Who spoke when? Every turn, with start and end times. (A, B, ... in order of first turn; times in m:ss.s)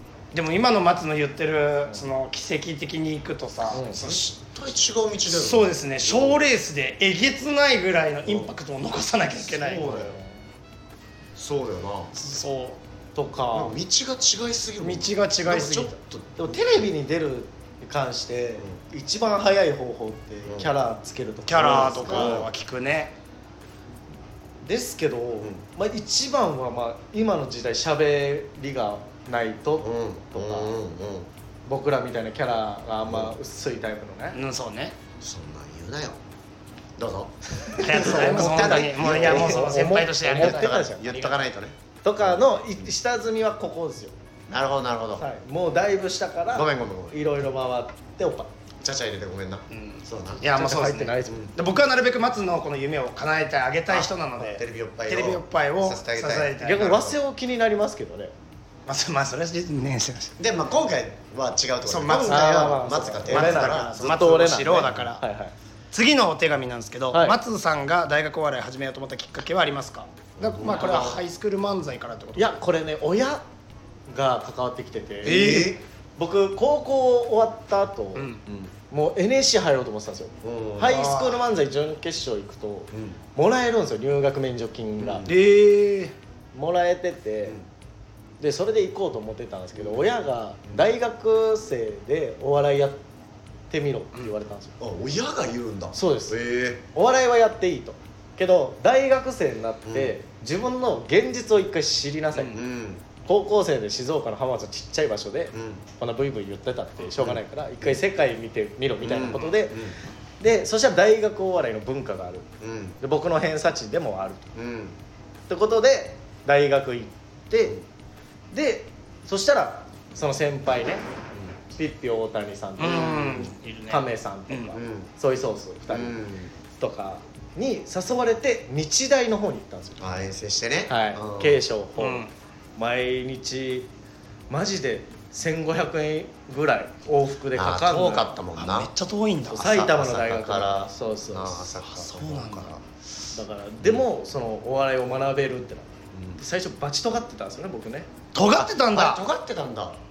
0:00.3-0:04.2 A
0:03.7-0:04.0 B
0:03.8-0:06.4 C
0:05.3-0:09.9 A
0:09.4-0:10.4 B
0:09.8-0:10.1 C
0:11.4-0:12.1 C
0:12.2-0:12.8 A
0:13.2-0:13.8 B
0:13.5-0:16.7 C
0:14.8-0:15.9 A
0:16.4-0:22.4 B
0:20.5-0:20.7 C
0:21.5-0:23.2 A
0:21.7-0:22.5 C
0:24.6-0:30.7 B
0:29.8-0:31.3 C
0:31.7-0:34.4 B
0:33.1-0:33.4 C
0:34.3-0:35.0 A
0:35.2-0:36.2 C
0:37.0-0:39.7 C
0:37.8-0:40.8 A
0:37.8-0:41.5 B
0:40.2-0:42.9 C
0:42.0-0:44.1 B
0:44.5-0:45.3 C
0:45.2-0:48.5 B
0:46.5-0:47.2 C
0:48.8-0:50.5 C
0:49.7-0:56.9 A
0:50.5-0:51.5 B
0:51.3-0:51.5 C
0:53.9-0:57.2 C
0:56.6-0:58.3 B
0:58.9-1:00.3 A
1:00.4-1:05.1 C
1:01.8-1:02.7 A
1:02.2-1:05.5 B
1:03.3-1:05.2 A
1:05.9-1:12.6 A
1:07.1-1:07.4 B
1:10.4-1:11.2 C
1:12.4-1:13.4 B
1:14.1-1:18.3 B
1:15.2-1:15.8 C
1:18.2-1:18.4 A
1:18.5-1:18.7 C
1:18.9-1:25.2 B
1:20.4-1:21.1 C
1:20.9-1:21.4 A
1:22.9-1:23.2 C
1:25.0-1:25.4 C
1:25.2-1:26.2 A
1:26.5-1:27.6 B
1:28.4-1:33.0 B
1:29.8-1:30.1 C
1:33.7-1:34.7 B
1:34.8-1:36.8 C
1:35.9-1:36.4 B
1:36.9-1:42.6 B
1:39.9-1:40.1 C
1:42.4-1:43.0 C
1:43.2-1:49.8 B
1:45.5-1:45.8 C
1:47.2-1:48.0 C
1:49.0-1:50.0 C
1:50.4-1:52.5 B
1:52.6-1:53.0 C
1:53.0-1:54.5 B
1:54.6-1:55.0 C
1:55.5-1:57.8 B
1:58.5-2:01.1 B
2:01.7-2:06.2 B
2:02.8-2:04.8 A
2:02.8-2:03.4 C
2:04.8-2:05.1 C
2:05.9-2:06.5 C
2:06.7-2:10.0 B
2:10.0-2:11.6 C
2:10.9-2:13.9 B
2:12.0-2:12.3 A
2:14.5-2:18.3 B
2:17.5-2:18.9 C
2:18.6-2:19.8 A
2:19.5-2:21.7 B
2:19.6-2:22.8 C
2:21.8-2:22.7 A
2:23.3-2:28.1 B
2:26.1-2:26.4 C
2:28.3-2:29.2 A
2:28.6-2:30.0 C